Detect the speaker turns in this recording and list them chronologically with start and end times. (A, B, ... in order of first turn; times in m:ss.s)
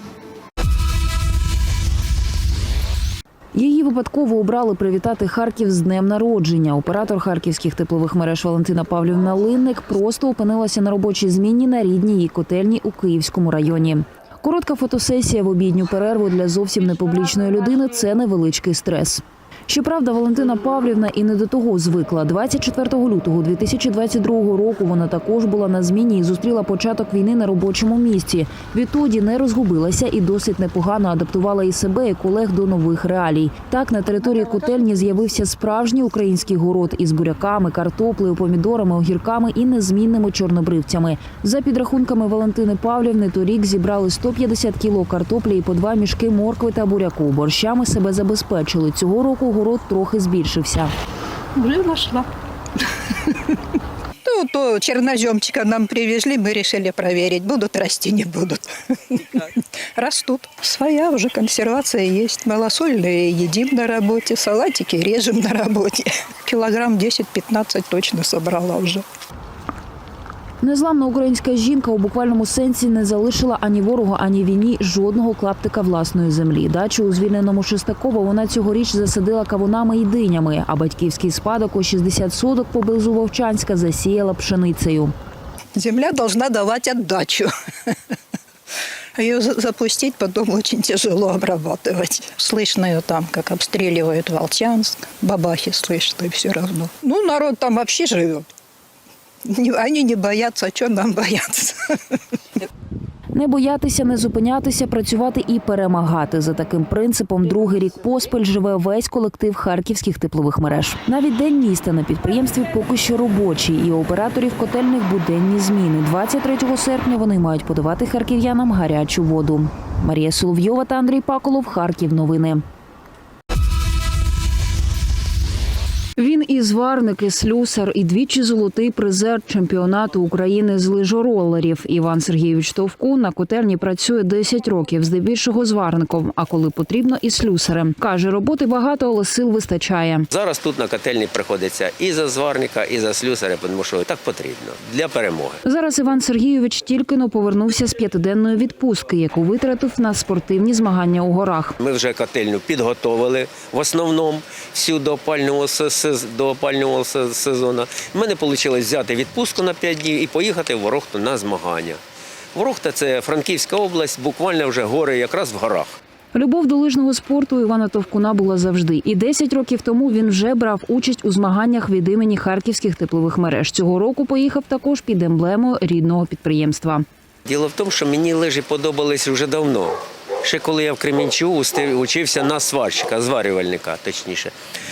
0:03.5-0:50.9 A
0:51.6-0:52.3 B
0:54.2-1:09.0 B
1:10.6-1:25.1 A
1:25.8-1:27.5 B
1:29.2-1:38.4 B
1:39.4-1:41.7 B
1:43.3-2:02.6 A
2:06.2-2:20.3 A
2:20.3-2:25.6 C
2:25.6-2:31.7 A
2:31.8-2:42.0 C
2:42.5-2:46.0 C
2:46.3-2:57.0 A
2:57.5-3:04.5 C